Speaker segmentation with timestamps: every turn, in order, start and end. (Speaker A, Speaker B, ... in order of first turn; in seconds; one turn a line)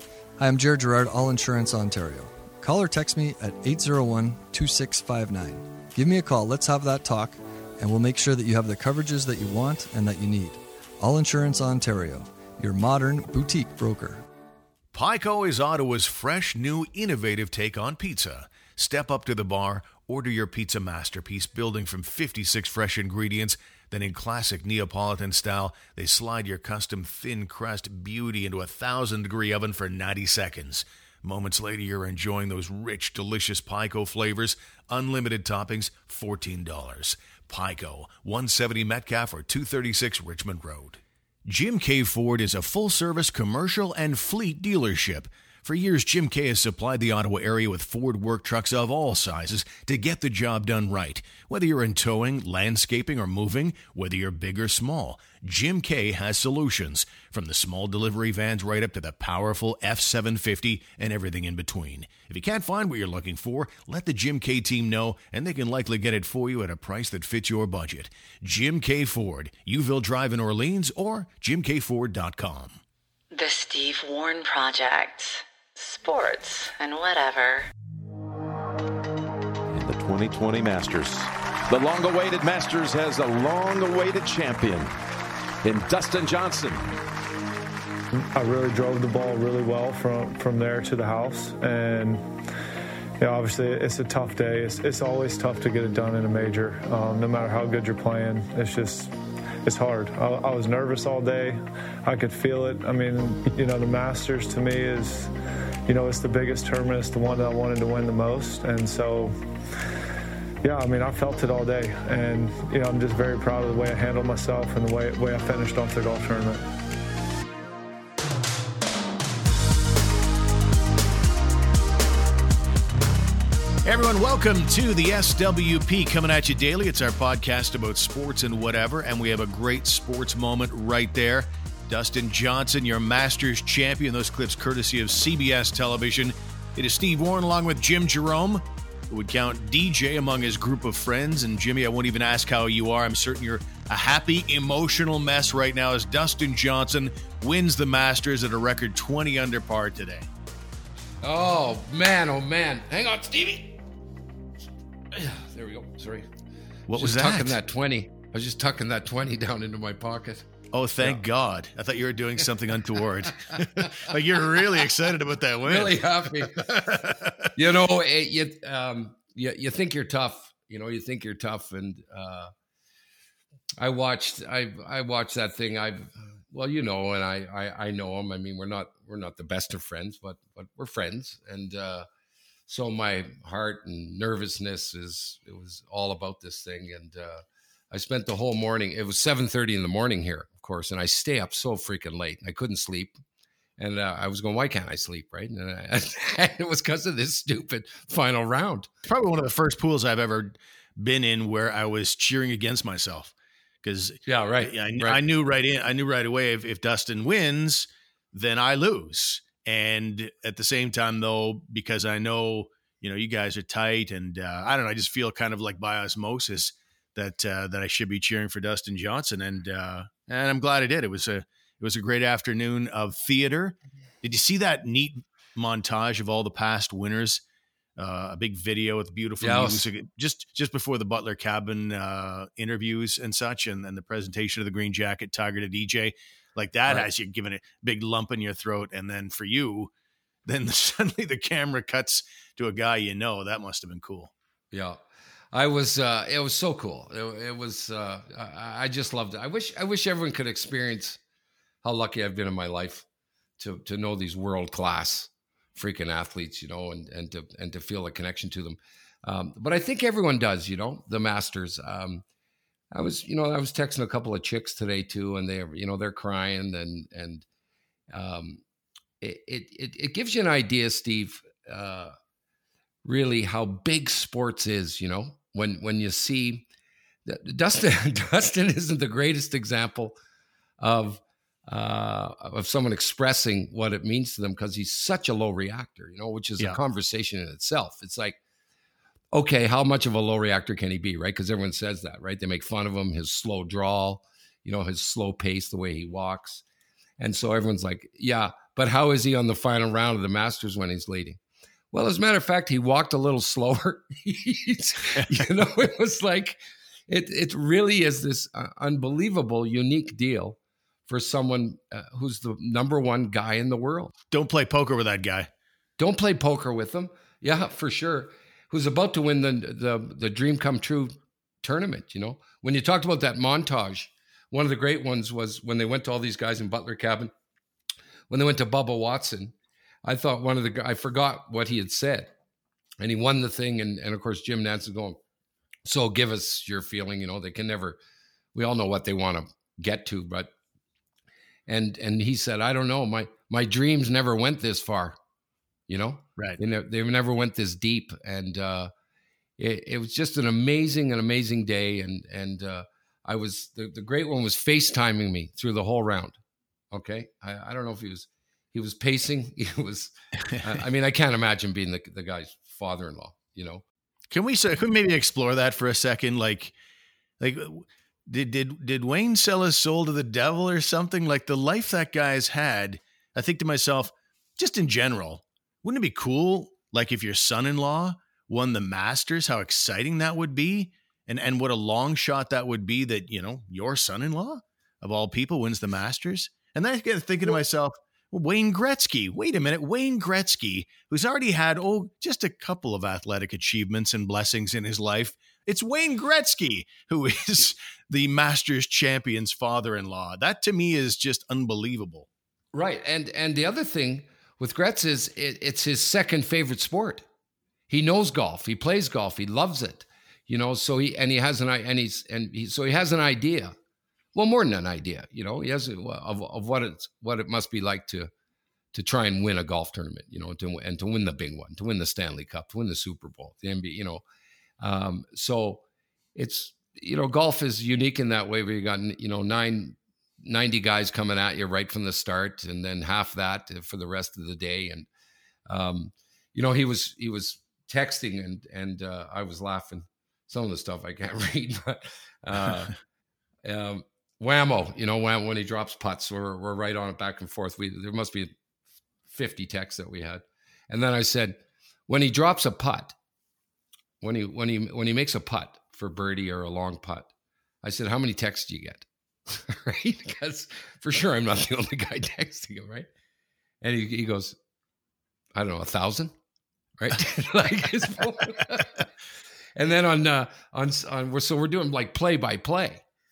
Speaker A: 0.4-14.2
Speaker B: 14.9-72.8
Speaker C: 73.3-77.7
Speaker D: 79.7-84.9
Speaker D: 85.6-86.9
Speaker E: 88.3-92.2
Speaker E: 93.2-99.1
Speaker E: 99.6-105.3
Speaker E: 105.9-109.4
Speaker E: 110.6-116.6
Speaker B: 123.8-150.3
Speaker F: 151.2-153.8
Speaker F: 155.1-156.3
Speaker B: 156.9-157.6
Speaker F: 156.9-160.5
Speaker B: 160.7-166.0
Speaker F: 163.5-163.9
Speaker F: 165.6-172.5
Speaker B: 166.9-167.5
Speaker F: 173.8-182.1
Speaker F: 182.7-193.2
Speaker F: 193.8-198.9
Speaker B: 199.0-227.4
Speaker F: 204.3-205.2
Speaker B: 228.0-239.9
Speaker F: 229.4-229.8
Speaker B: 240.4-244.3
Speaker F: 244.7-245.0
Speaker F: 245.5-251.2
Speaker F: 251.8-253.0
Speaker F: 253.6-262.2
Speaker F: 262.9-267.4
Speaker F: 268.1-268.6
Speaker F: 269.2-272.1
Speaker F: 273.0-276.6
Speaker F: 277.2-280.2
Speaker F: 280.8-288.4
Speaker F: 289.3-296.6
Speaker F: 297.2-301.4
Speaker F: 301.9-310.6
Speaker F: 311.1-314.1
Speaker B: 314.3-315.5
Speaker F: 316.0-327.3
Speaker F: 328.3-332.3
Speaker F: 333.0-335.2
Speaker F: 335.9-338.0
Speaker F: 338.5-340.5
Speaker F: 341.7-345.1
Speaker F: 345.9-348.9
Speaker F: 349.6-356.4
Speaker F: 356.9-363.8
Speaker B: 364.3-366.7
Speaker B: 367.4-402.3
Speaker F: 402.7-407.2
Speaker F: 407.9-413.7
Speaker F: 414.3-418.3
Speaker F: 418.9-424.2
Speaker F: 424.8-425.8
Speaker F: 426.4-435.1
Speaker F: 435.7-442.9
Speaker F: 443.6-448.5
Speaker F: 449.3-453.1
Speaker F: 454.2-457.3
Speaker F: 457.8-463.1
Speaker F: 463.8-464.6
Speaker F: 465.5-466.3
Speaker F: 467.0-469.1
Speaker F: 469.8-473.0